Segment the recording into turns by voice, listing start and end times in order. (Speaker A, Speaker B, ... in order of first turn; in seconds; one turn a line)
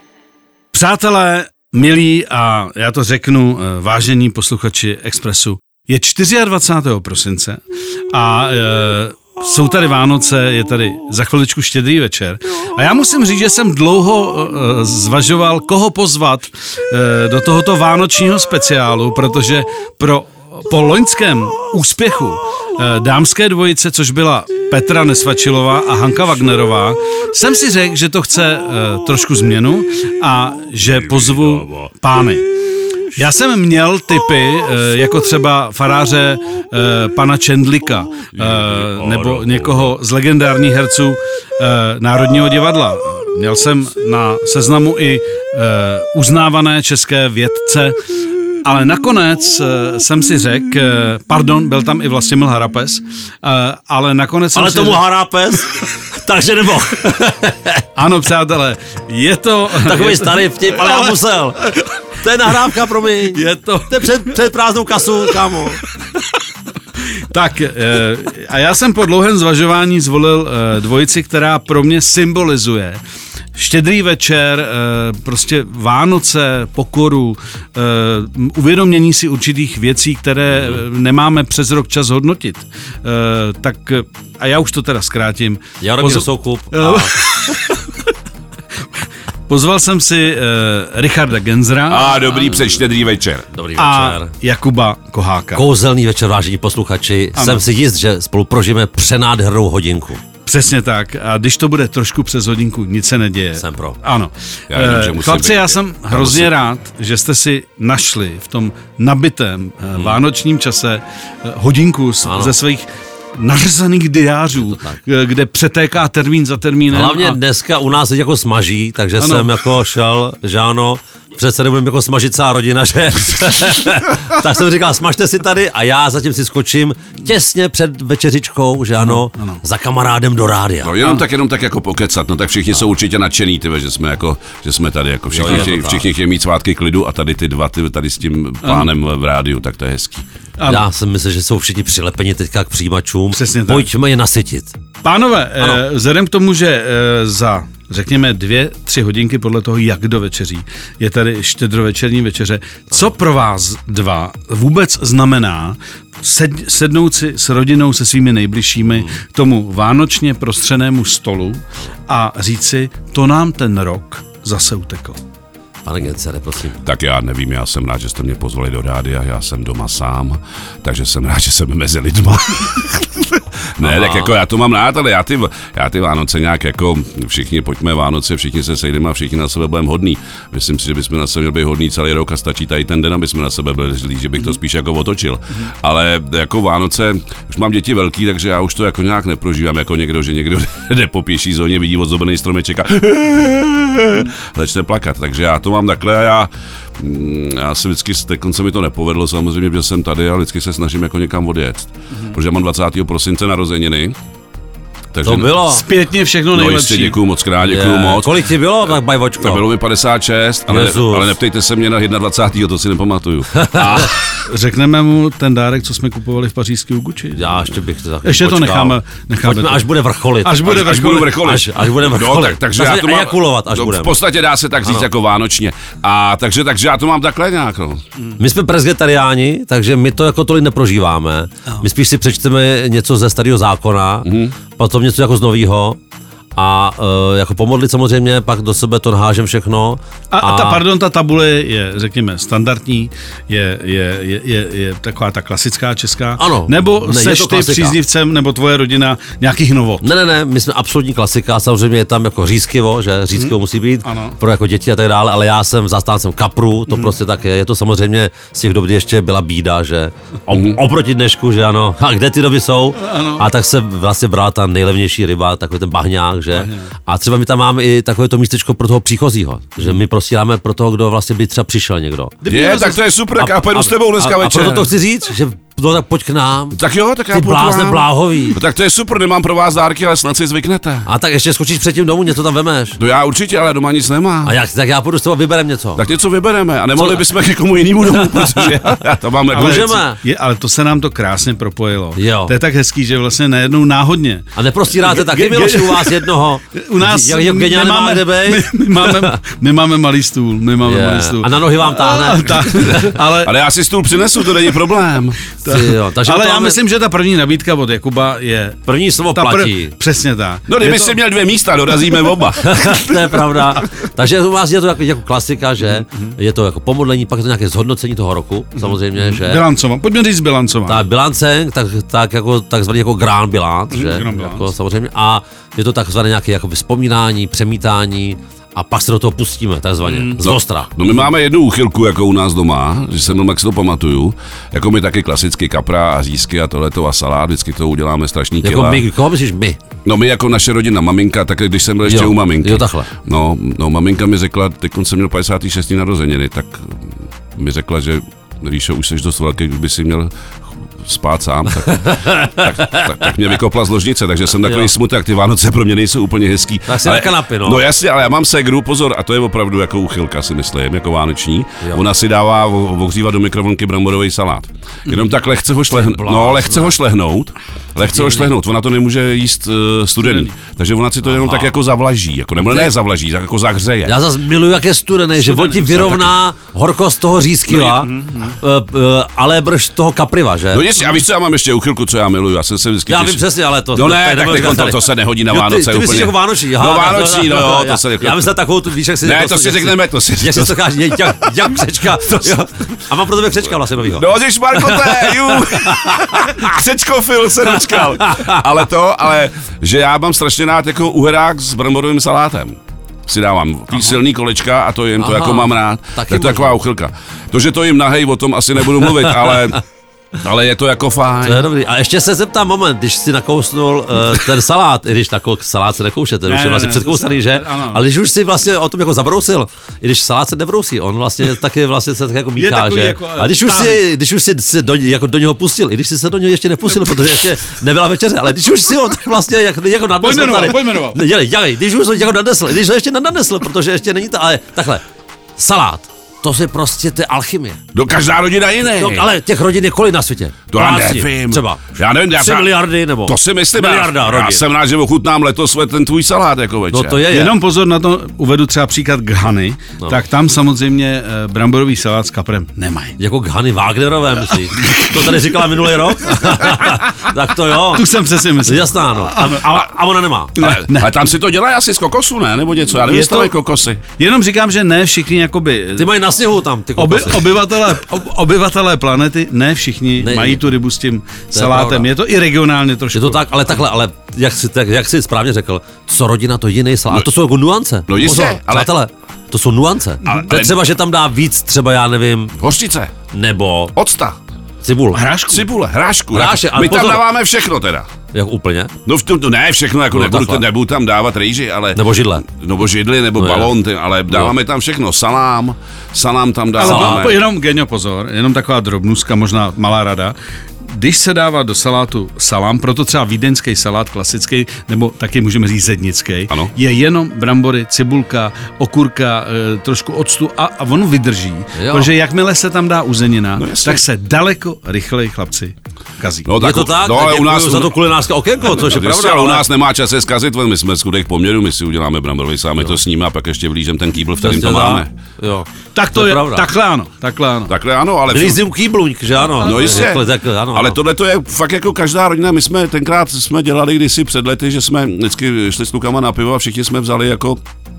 Speaker A: 0.7-7.6
Speaker A: 8.1-32.5
Speaker B: 30.9-31.9
Speaker A: 33.1-48.0
Speaker B: 38.4-39.9
Speaker A: 48.6-55.0
Speaker C: 54.5-57.8
Speaker A: 58.0-61.8
Speaker C: 59.8-61.7
Speaker C: 62.2-65.8
Speaker A: 63.3-64.3
Speaker A: 67.3-73.0
Speaker A: 73.5-88.1
Speaker C: 85.8-87.2
Speaker A: 89.5-92.4
Speaker B: 91.9-93.5
Speaker C: 93.5-94.3
Speaker A: 93.8-95.6
Speaker C: 95.5-100.2
Speaker A: 97.4-97.6
Speaker A: 100.5-117.4
Speaker C: 103.6-104.0
Speaker B: 104.7-106.5
Speaker C: 112.2-112.6
Speaker C: 114.5-115.0
Speaker C: 116.9-131.0
Speaker A: 119.2-119.6
Speaker A: 129.0-129.6
Speaker B: 130.8-140.2
Speaker C: 135.3-136.1
Speaker A: 138.6-138.9
Speaker A: 140.6-140.9
Speaker C: 140.7-144.8
Speaker A: 143.3-143.9
Speaker A: 145.0-165.2
Speaker C: 158.9-159.2
Speaker C: 165.8-166.8
Speaker B: 166.8-204.2
Speaker C: 173.8-174.3
Speaker B: 205.1-205.6
Speaker C: 205.2-205.8
Speaker A: 205.7-207.2
Speaker B: 206.5-208.4
Speaker C: 207.6-209.7
Speaker B: 209.4-214.2
Speaker C: 210.7-211.3
Speaker A: 214.3-217.6
Speaker C: 217.3-224.2
Speaker A: 218.2-219.9
Speaker A: 220.4-221.4
Speaker B: 220.6-228.0
Speaker C: 228.4-236.0
Speaker B: 234.2-234.5
Speaker C: 236.6-240.8
Speaker A: 240.3-250.1
Speaker C: 246.4-248.0
Speaker C: 250.0-272.4
Speaker A: 253.3-254.4
Speaker B: 260.5-260.8
Speaker A: 263.0-263.5
Speaker A: 266.5-266.9
Speaker A: 272.4-273.0
Speaker B: 272.5-274.9
Speaker C: 273.4-276.8
Speaker B: 276.7-281.1
Speaker C: 277.3-278.6
Speaker C: 281.1-283.0
Speaker B: 283.0-284.6
Speaker C: 284.4-286.0
Speaker B: 286.0-289.9
Speaker C: 287.0-287.2
Speaker C: 288.2-288.7
Speaker C: 289.5-290.2
Speaker A: 289.5-303.5
Speaker C: 292.2-292.5
Speaker C: 294.6-299.4
Speaker C: 300.9-303.1
Speaker B: 302.9-305.4
Speaker A: 305.6-311.2
Speaker C: 305.6-306.8
Speaker C: 308.9-309.9
Speaker B: 310.7-313.8
Speaker C: 312.6-319.6
Speaker A: 316.0-316.3
Speaker A: 318.8-321.1
Speaker C: 320.9-330.9
Speaker A: 323.9-324.7
Speaker A: 330.1-330.4
Speaker B: 330.4-339.1
Speaker C: 338.6-339.8
Speaker B: 340.1-374.2
Speaker C: 342.1-343.1
Speaker C: 351.9-353.1
Speaker C: 354.6-354.9
Speaker C: 356.9-357.9
Speaker C: 365.9-366.9
Speaker C: 368.1-368.5
Speaker A: 370.2-370.5
Speaker C: 371.3-371.7
Speaker C: 372.6-372.9
Speaker C: 374.1-380.9
Speaker B: 375.6-376.4
Speaker A: 377.7-378.6
Speaker B: 380.7-388.6
Speaker C: 383.1-396.6
Speaker B: 389.2-392.6
Speaker B: 394.1-409.8
Speaker C: 397.9-398.6
Speaker C: 405.2-406.8
Speaker C: 409.2-409.8
Speaker B: 410.4-411.7
Speaker C: 411.4-435.0
Speaker A: 416.5-418.0
Speaker A: 422.6-424.0
Speaker A: 430.2-431.2
Speaker C: 435.6-437.8
Speaker B: 437.9-439.3
Speaker C: 439.0-441.8
Speaker B: 440.7-447.3
Speaker C: 442.3-444.6
Speaker C: 446.9-447.6
Speaker A: 447.3-453.1
Speaker C: 453.2-458.1
Speaker A: 454.7-455.5
Speaker A: 456.4-456.8
Speaker A: 457.9-459.9
Speaker C: 458.6-460.6
Speaker A: 460.6-461.1
Speaker B: 460.6-464.0
Speaker A: 463.0-463.5
Speaker A: 464.2-466.1
Speaker C: 466.0-467.6
Speaker A: 467.0-473.8
Speaker C: 470.2-470.6
Speaker C: 471.5-472.1
Speaker C: 473.1-482.6
Speaker B: 478.1-478.9
Speaker A: 480.2-480.5
Speaker B: 480.2-480.8
Speaker B: 482.6-483.1
Speaker C: 483.3-483.9
Speaker B: 483.9-484.4
Speaker C: 484.8-485.2
Speaker A: 485.1-485.7
Speaker B: 485.5-488.1
Speaker C: 486.3-487.3
Speaker C: 488.3-488.9
Speaker B: 489.1-497.4
Speaker C: 490.1-490.7
Speaker C: 491.9-492.4
Speaker C: 493.4-493.7
Speaker A: 496.8-516.5
Speaker C: 496.8-497.3
Speaker C: 511.8-512.1
Speaker B: 513.6-514.0
Speaker B: 516.5-525.1
Speaker C: 516.6-519.7
Speaker C: 524.4-526.7
Speaker A: 525.9-527.7
Speaker B: 527.7-528.6
Speaker C: 528.3-531.0
Speaker A: 529.5-530.1
Speaker B: 529.6-537.6